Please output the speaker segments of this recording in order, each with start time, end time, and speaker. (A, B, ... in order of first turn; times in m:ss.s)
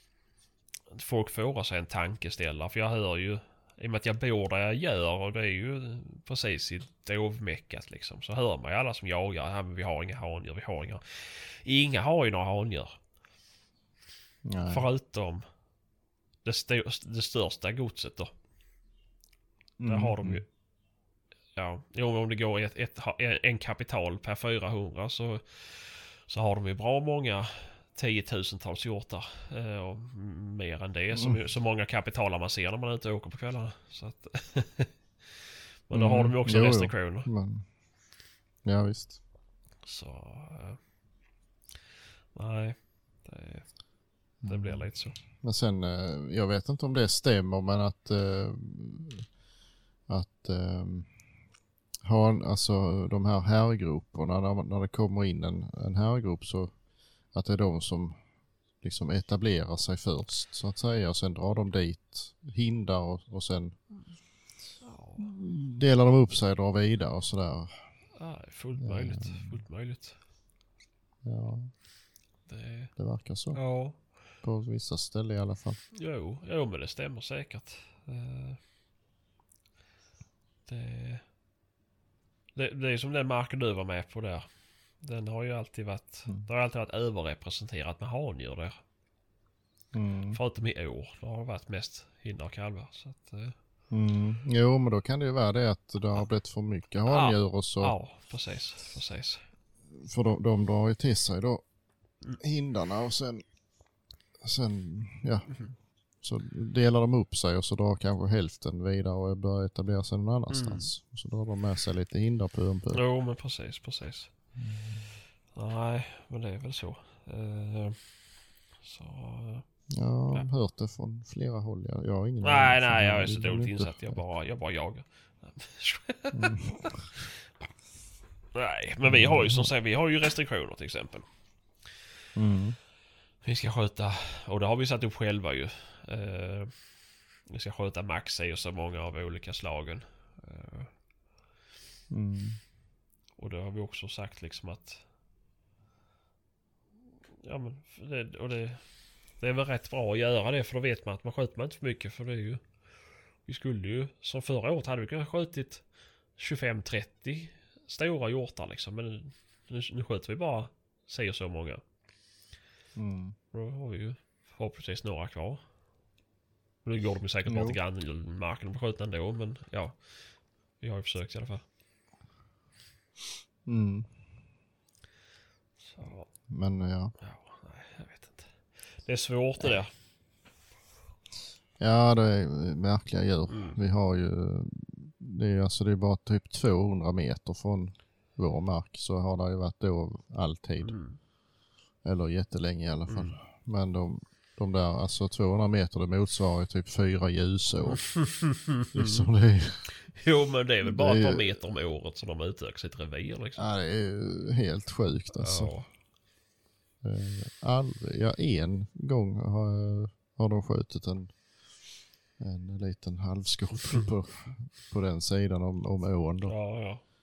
0:00.9-0:13.0 A
0:14.4-0:14.9 B
0:14.7-0:15.4 A
0:16.4-0:18.3 A
0:19.8-0:20.4 B
0:19.8-0:20.4 A
0:21.6-0:35.3 A
0:35.9-0:37.3 A
0:35.9-0:37.7 B
0:38.6-0:39.2 B
0:39.8-0:40.8 A
0:42.3-0:43.7 A
0:44.4-0:45.2 A
0:44.4-0:49.3 B
0:50.1-0:51.1 B
0:52.0-0:56.7 B
0:57.3-0:58.2 B
0:58.8-1:03.8 B
1:04.8-1:05.3 A
1:05.2-1:07.8 B
1:08.2-1:10.2 A
1:08.8-1:09.6 B
1:11.2-1:11.7 B
1:12.5-1:12.9 A
1:13.0-1:13.6 B
1:13.5-1:14.1 A
1:14.4-1:15.8 B
1:15.9-1:18.6 A
1:20.6-1:21.2 A
1:22.5-1:24.5 A
1:25.0-1:28.8 A
1:29.9-1:30.4 B
1:30.3-1:33.5 A
1:33.9-1:38.0 B
1:37.1-1:39.4 A
1:39.9-1:41.6 B
1:42.4-1:43.4 B
1:44.4-1:45.6 B
1:46.2-1:53.0 B
1:50.5-1:50.9 A
1:52.9-1:54.3 A
1:54.6-1:55.1 B
1:55.5-1:58.2 A
1:58.8-1:59.6 A
1:59.9-2:04.2 B
2:02.4-2:07.3 A
2:06.3-2:07.1 B
2:08.5-2:11.3 A
2:09.0-2:09.7 B
2:12.4-2:12.8 B
2:13.4-2:16.9 A
2:17.5-2:20.9 A
2:22.1-2:22.6 B
2:23.4-2:25.0 A
2:27.4-2:32.6 A
2:33.4-2:35.8 A
2:36.4-2:41.8 A
2:43.0-2:43.4 B
2:43.5-2:45.6 A
2:46.8-2:50.1 A
2:47.4-2:47.8 B
2:50.8-2:51.6 A
2:53.6-2:54.1 B
2:55.8-2:56.3 A
2:56.5-2:57.1 B
2:57.2-2:59.9 A
3:01.8-3:11.0 B
3:03.5-3:03.8 A
3:10.8-3:11.2 A
3:12.0-3:18.1 B
3:13.1-3:13.3 A
3:17.9-3:19.3 A
3:18.9-3:19.9 B
3:20.1-3:23.7 A
3:20.8-3:21.6 B
3:23.6-3:25.7 B
3:25.4-3:25.9 A
3:27.0-3:31.3 B
3:32.4-3:36.6 B
3:36.4-3:37.0 A